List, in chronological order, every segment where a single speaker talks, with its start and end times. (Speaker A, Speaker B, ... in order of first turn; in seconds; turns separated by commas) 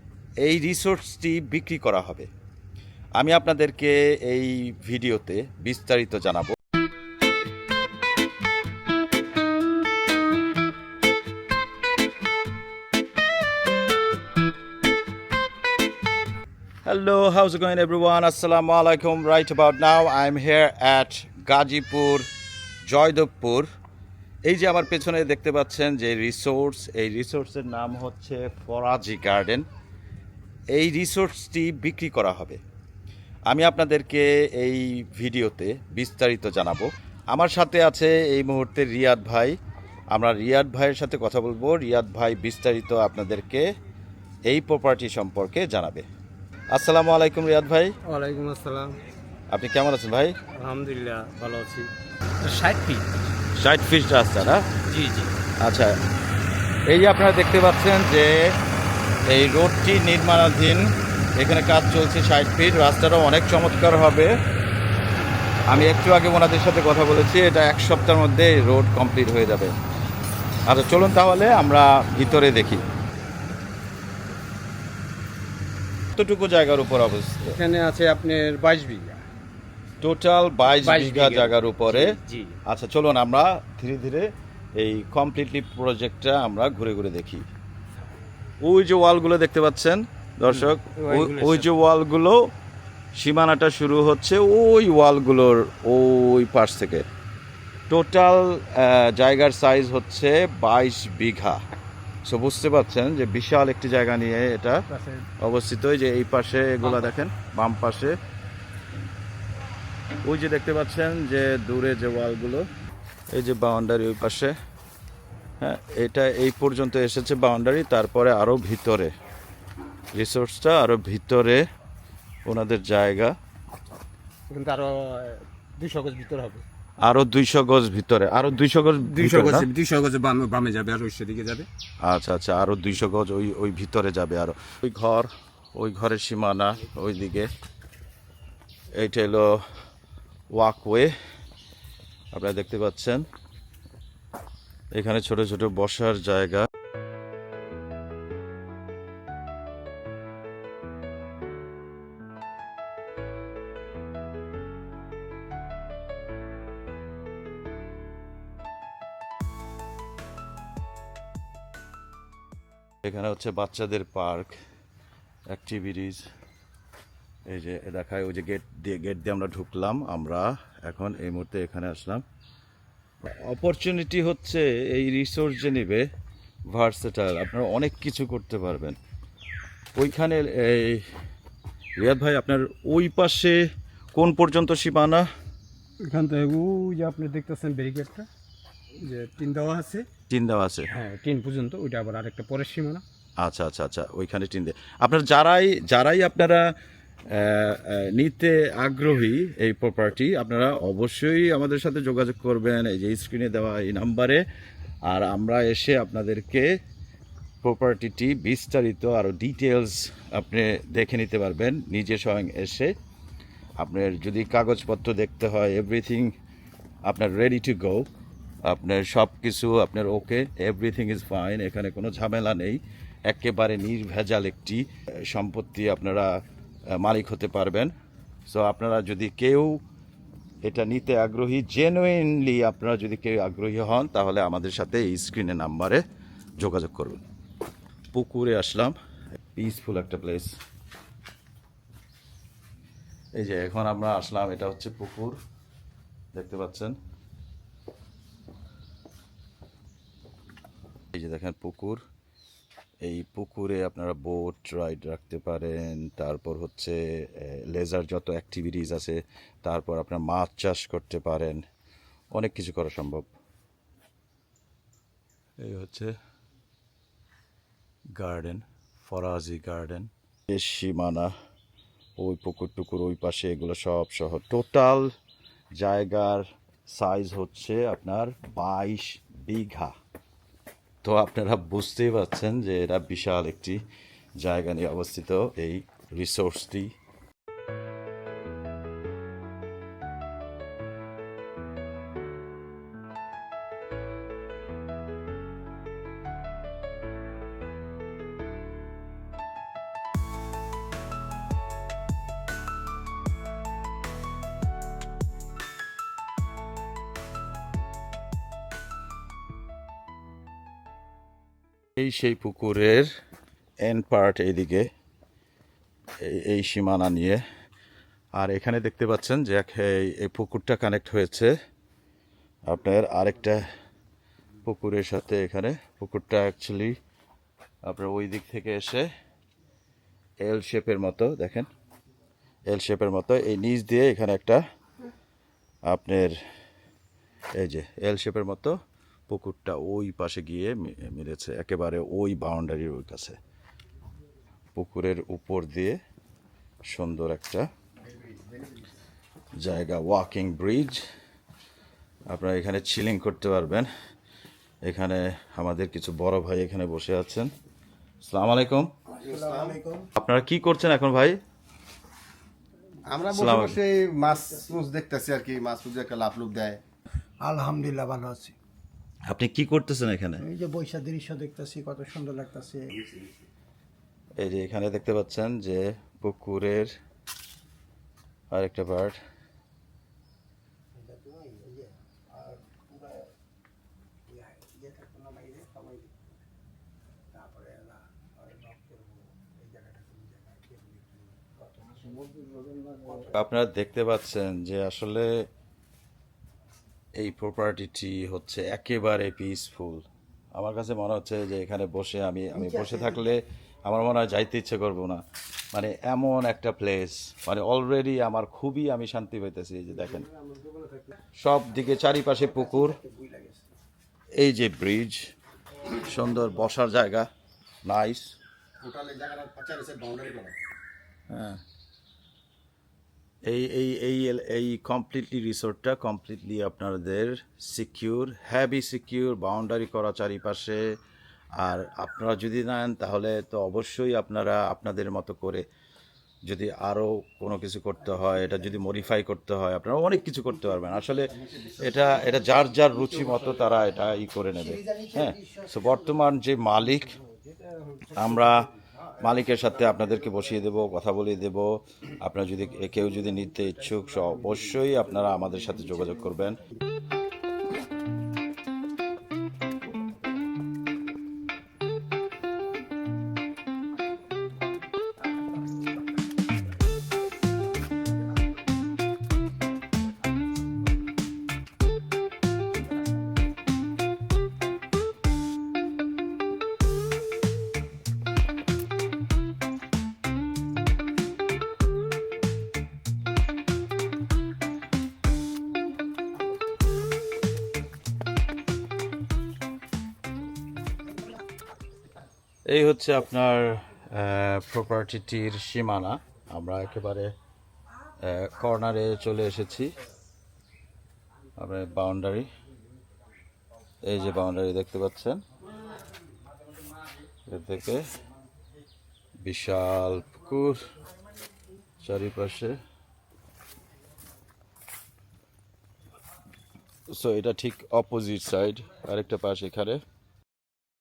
Speaker A: 0.4-2.3, Speaker A: 3.1-6.6, Speaker A: 16.9-22.3, Speaker A: 22.8-23.7, Speaker A: 24.4-29.6, Speaker A: 30.7-32.6, Speaker A: 33.5-39.6, Speaker A: 40.1-43.6, Speaker A: 44.5-46.0, Speaker A: 46.7-47.9, Speaker B: 48.0-49.0, Speaker A: 49.5-50.4, Speaker B: 50.5-53.3, Speaker A: 53.5-54.7, Speaker B: 54.8-55.4, Speaker A: 55.6-56.0, Speaker A: 56.9-58.5, Speaker A: 59.3-64.3, Speaker A: 65.7-69.7, Speaker A: 70.7-72.9, Speaker A: 76.1-77.6, Speaker B: 77.4-79.2, Speaker A: 80.0-87.5, Speaker B: 80.7-82.6, Speaker A: 88.6-92.5, Speaker B: 90.5-91.7, Speaker A: 93.1-97.0, Speaker A: 97.9-101.6, Speaker A: 102.2-104.8, Speaker B: 104.9-105.3, Speaker A: 105.4-108.2, Speaker A: 110.2-112.6, Speaker A: 113.3-114.5, Speaker A: 115.6-119.1, Speaker A: 120.1-121.7, Speaker A: 122.4-123.3, Speaker B: 124.5-126.7, Speaker A: 127.0-129.7, Speaker B: 129.0-131.7, Speaker A: 132.0-137.5, Speaker A: 138.9-139.7, Speaker A: 140.5-141.1, Speaker A: 142.3-143.2, Speaker A: 144.9-146.7, Speaker A: 163.0-164.6, Speaker A: 165.5-166.2, Speaker A: 167.4-172.2, Speaker A: 173.2-176.1, Speaker A: 176.7-179.0, Speaker A: 179.9-181.1, Speaker A: 182.0-183.6, Speaker A: 184.1-185.3, Speaker B: 186.0-188.3, Speaker B: 188.9-190.1, Speaker A: 190.3-190.9, Speaker B: 190.9-193.0, Speaker A: 193.4-196.7, Speaker A: 197.3-204.4, Speaker A: 205.1-206.7, Speaker A: 207.6-212.9, Speaker A: 213.8-216.3, Speaker A: 217.0-218.1, Speaker A: 218.6-226.3, Speaker A: 226.9-227.9, Speaker A: 228.4-229.8, Speaker A: 230.6-236.0, Speaker A: 236.6-237.2, Speaker A: 238.1-238.9, Speaker A: 239.6-240.5, Speaker A: 243.3-245.4, Speaker A: 246.3-246.9, Speaker A: 251.1-252.0, Speaker A: 253.0-261.6, Speaker A: 262.3-263.2, Speaker A: 265.6-266.1, Speaker A: 268.2-271.3, Speaker A: 272.2-275.1, Speaker A: 275.8-279.9, Speaker A: 281.0-283.8, Speaker A: 284.4-286.9, Speaker A: 311.9-313.1, Speaker A: 313.8-314.9, Speaker A: 316.2-317.4, Speaker A: 318.3-321.5, Speaker A: 322.7-323.6, Speaker A: 324.6-327.0, Speaker A: 327.8-329.1, Speaker A: 330.4-331.7, Speaker A: 332.7-334.6, Speaker A: 335.9-336.4, Speaker A: 337.6-343.4, Speaker A: 344.7-346.0, Speaker A: 346.9-347.7, Speaker A: 349.6-351.0, Speaker A: 352.3-353.9, Speaker A: 354.8-357.5, Speaker A: 358.2-358.9, Speaker C: 359.2-359.8, Speaker D: 359.2-360.1, Speaker A: 360.1-361.4, Speaker C: 363.1-366.8, Speaker A: 363.3-363.8, Speaker D: 367.4-368.6, Speaker A: 369.3-370.4, Speaker D: 370.4-373.1, Speaker A: 374.4-376.9, Speaker A: 378.5-379.2, Speaker D: 380.9-383.3, Speaker D: 384.3-386.3, Speaker D: 387.3-393.2, Speaker A: 393.3-395.4, Speaker A: 397.1-410.3, Speaker A: 411.4-413.0, Speaker D: 412.7-413.7, Speaker A: 414.4-415.3, Speaker A: 415.9-417.3, Speaker A: 417.8-418.3, Speaker C: 418.8-420.6, Speaker A: 421.3-421.6, Speaker A: 423.4-430.9, Speaker A: 431.6-435.6, Speaker A: 436.4-447.2, Speaker D: 444.8-445.7, Speaker A: 448.1-456.6, Speaker A: 492.7-497.3, Speaker A: 498.2-499.9, Speaker A: 501.6-502.5, Speaker A: 504.0-505.4, Speaker A: 507.5-508.1, Speaker A: 509.4-510.9, Speaker A: 512.0-512.8, Speaker A: 517.1-520.0